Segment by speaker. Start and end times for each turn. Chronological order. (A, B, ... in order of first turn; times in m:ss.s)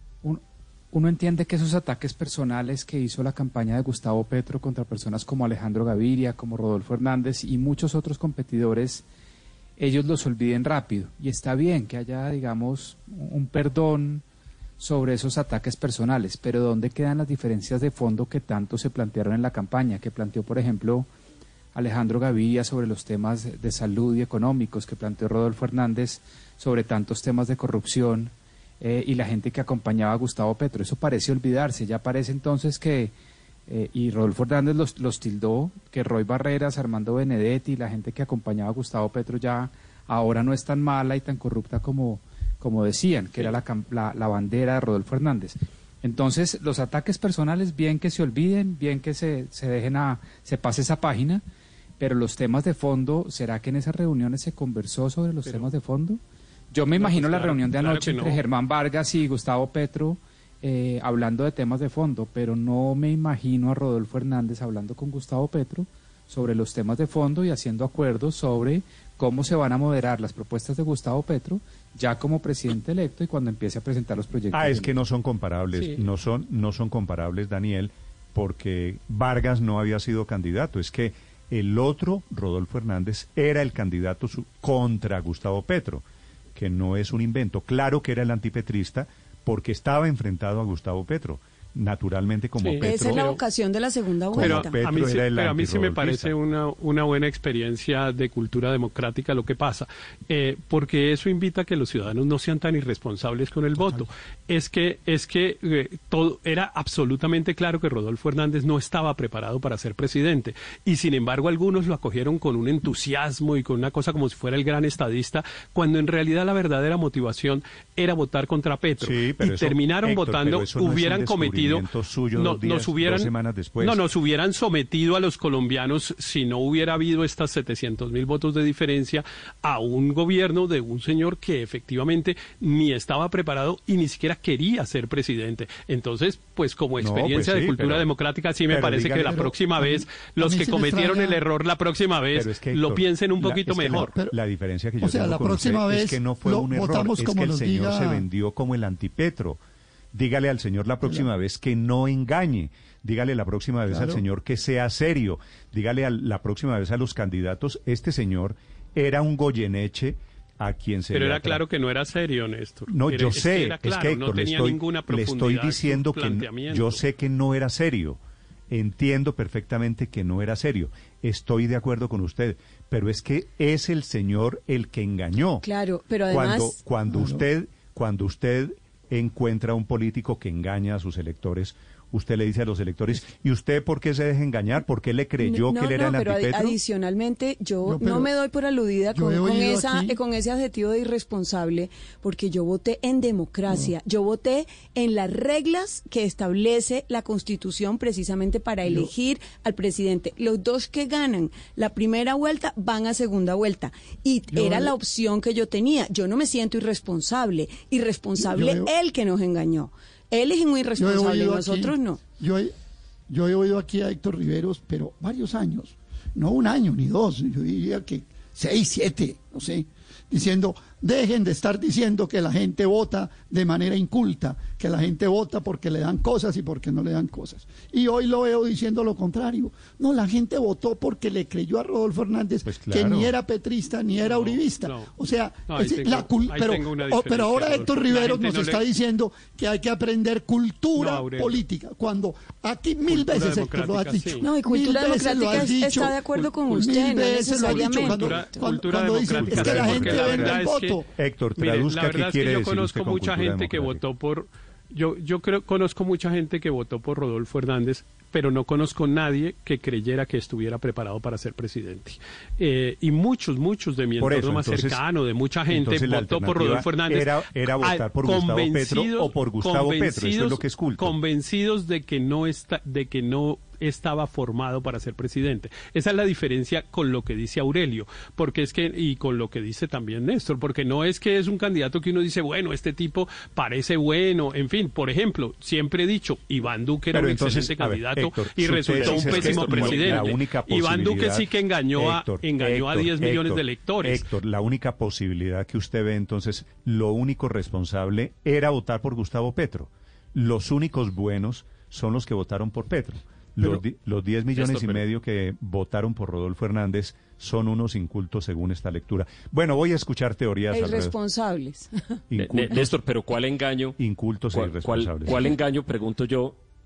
0:00.2-0:09.0 A
0:09.8-0:14.2 A
0:14.8-0:21.1 A
0:21.7-0:33.1 A
0:33.7-0:51.4 A
0:52.0-0:56.2 A
0:56.7-1:14.9 A
0:57.0-0:58.4 B
1:14.5-1:26.0 C
1:26.5-1:33.3 C
1:32.6-1:33.4 B
1:32.8-1:34.8 D
1:34.3-1:36.4 C
1:34.4-2:03.3 B
1:59.0-2:04.0 C
2:03.8-2:24.1 B
2:17.0-2:18.1 C
2:18.7-2:19.4 C
2:19.3-2:21.4 E
2:22.3-2:29.6 C
2:25.0-2:28.2 E
2:30.1-2:41.6 C
2:33.9-2:34.2 E
2:41.1-2:47.0 B
2:42.9-2:48.2 C
2:48.7-2:55.6 C
2:55.6-2:56.8 D
2:56.3-3:06.8 C
2:57.1-2:57.4 E
3:05.4-3:32.2 D
3:07.8-3:08.3 E
3:09.1-3:10.2 E
3:13.7-3:13.9 E
3:18.8-3:19.1 E
3:24.5-3:24.9 E
3:28.4-3:28.9 E
3:31.0-3:32.7 E
3:33.3-4:11.0 E
3:52.6-3:53.3 C
3:54.2-3:55.1 B
3:55.7-3:58.8 B
4:01.0-4:01.6 B
4:03.1-4:04.4 B
4:04.4-4:08.6 D
4:07.6-4:11.0 B
4:09.3-4:10.6 C
4:11.2-4:14.0 C
4:11.6-4:54.2 B
4:24.2-4:25.0 C
4:25.7-4:31.2 C
4:47.1-5:11.1 C
4:48.9-4:50.4 F
5:04.6-5:05.0 F
5:10.7-5:12.2 D
5:12.3-5:13.0 C
5:12.3-5:14.0 F
5:14.0-5:15.5 C
5:14.5-5:16.6 F